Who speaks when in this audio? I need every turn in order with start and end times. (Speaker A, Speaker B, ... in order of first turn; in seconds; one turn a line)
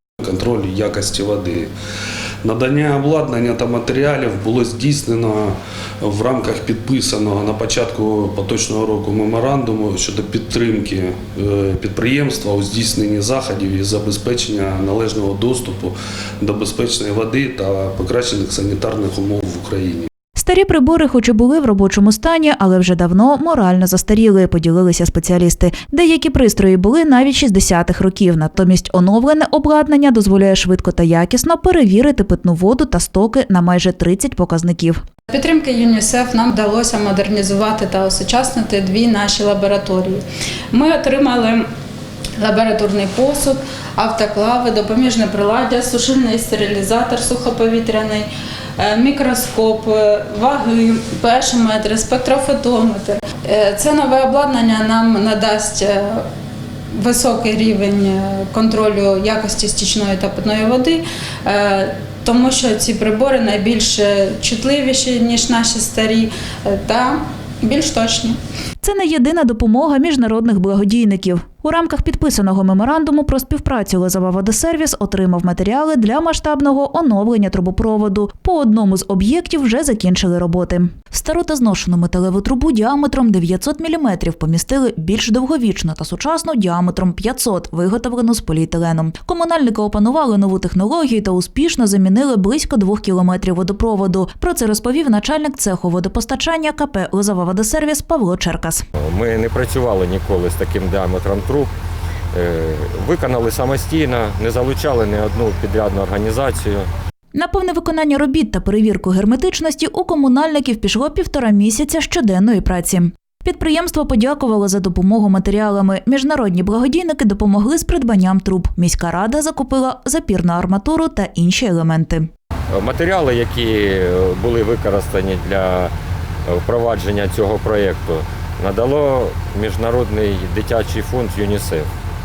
Speaker A: 0.2-1.7
Speaker A: 2.4-20.1
Speaker B: 20.4-35.0
Speaker C: 35.3-41.6
Speaker C: 42.4-56.3
Speaker C: 56.9-68.4
Speaker B: 68.8-98.8
Speaker D: 99.0-101.7
Speaker D: 102.3-106.9
Speaker B: 107.3-122.3
Speaker D: 122.7-125.9
Speaker D: 126.5-131.9